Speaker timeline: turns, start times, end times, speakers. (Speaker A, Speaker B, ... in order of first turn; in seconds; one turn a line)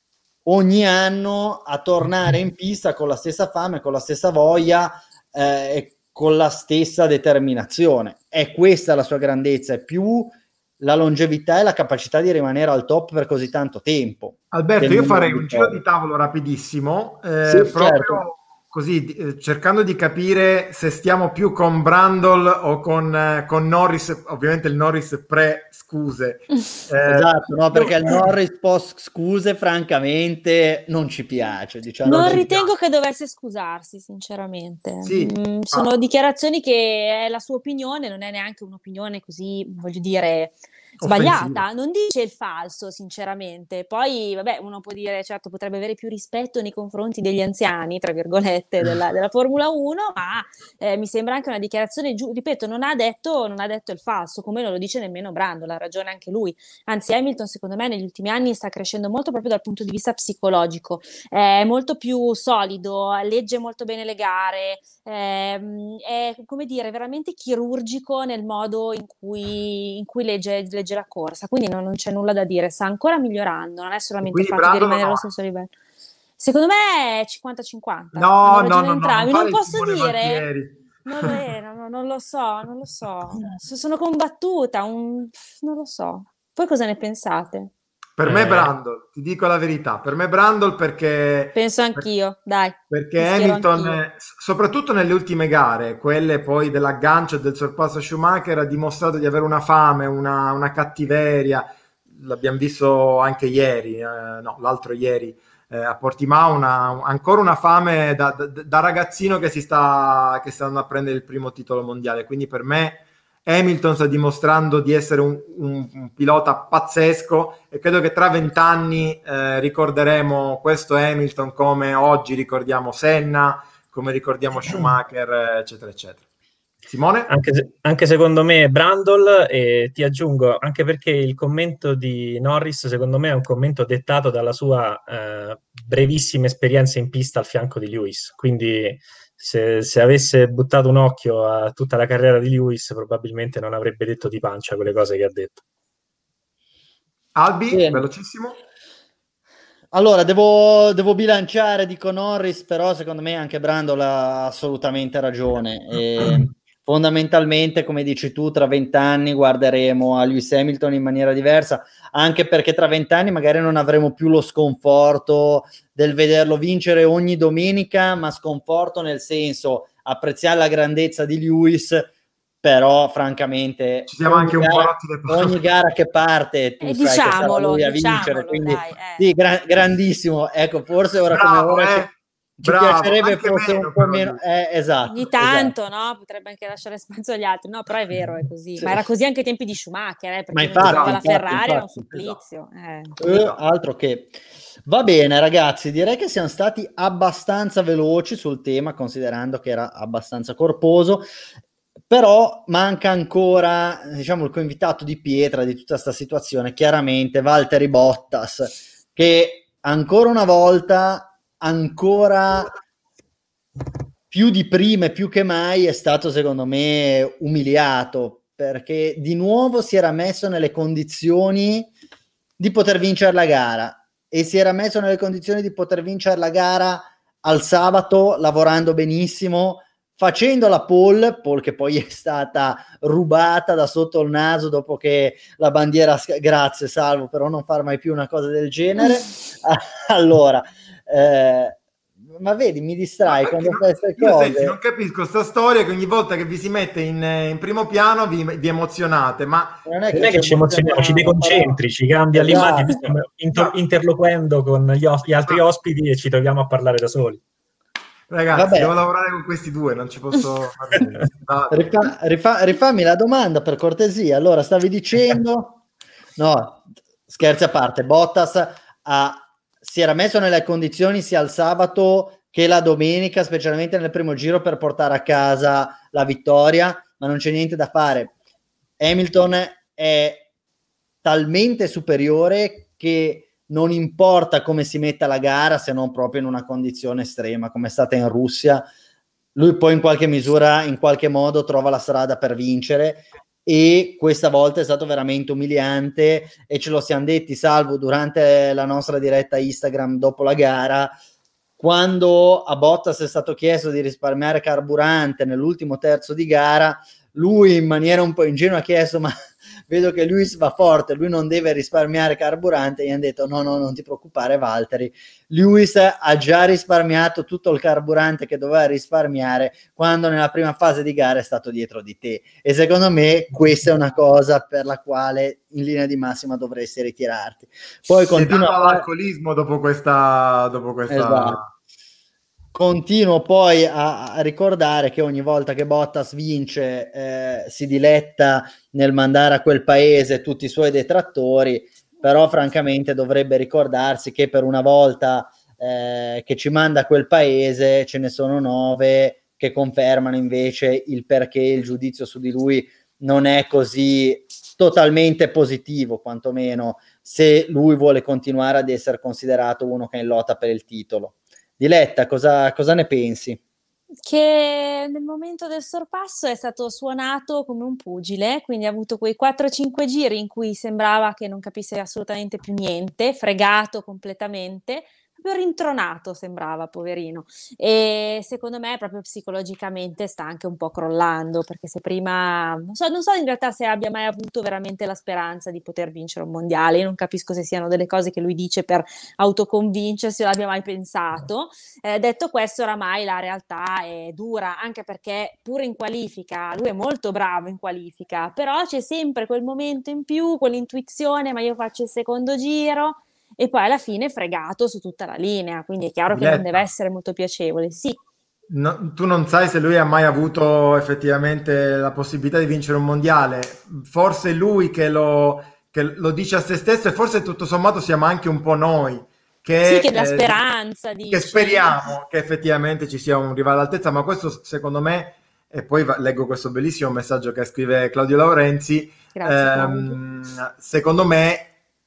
Speaker A: 0.4-15.8
Speaker B: 14.5-28.2
Speaker A: 17.4-18.2
Speaker A: 27.1-32.6
Speaker B: 32.0-32.7
Speaker C: 32.0-75.7
Speaker B: 35.0-35.9
Speaker B: 41.0-41.6
Speaker B: 74.2-75.2
Speaker C: 76.4-80.4
Speaker B: 78.1-81.3
Speaker C: 81.0-87.7
Speaker B: 88.2-92.0
Speaker D: 88.2-88.7
Speaker C: 91.5-94.0
Speaker B: 92.9-126.2
Speaker B: 126.9-127.3
Speaker D: 127.3-145.6
Speaker B: 147.3-148.6
Speaker A: 147.7-148.1
Speaker A: 149.9-172.1
Speaker A: 172.6-185.7
Speaker B: 174.1-175.6
Speaker C: 176.8-179.2
Speaker B: 181.3-184.4
Speaker C: 185.1-193.2
Speaker A: 190.5-192.4
Speaker B: 190.8-191.2
Speaker A: 193.2-201.2
Speaker B: 193.2-193.5
Speaker A: 202.1-212.7
Speaker A: 214.3-221.9
Speaker A: 222.6-241.8
Speaker A: 242.3-244.8
Speaker B: 243.2-249.8
Speaker A: 249.8-251.8
Speaker D: 250.1-257.4
Speaker A: 252.3-253.1
Speaker B: 253.5-253.8
Speaker B: 258.3-262.0
Speaker A: 258.5-258.9
Speaker A: 261.7-265.8
Speaker A: 266.4-278.3
Speaker A: 279.0-280.5
Speaker A: 281.2-288.8
Speaker A: 289.5-301.1
Speaker A: 301.8-309.3
Speaker A: 309.9-329.1
Speaker B: 328.3-331.7
Speaker A: 331.1-331.6
Speaker A: 332.7-363.6
Speaker C: 364.2-408.2
Speaker B: 406.3-406.8
Speaker B: 408.7-420.6
Speaker C: 419.8-422.1
Speaker B: 421.3-431.7
Speaker C: 429.3-430.2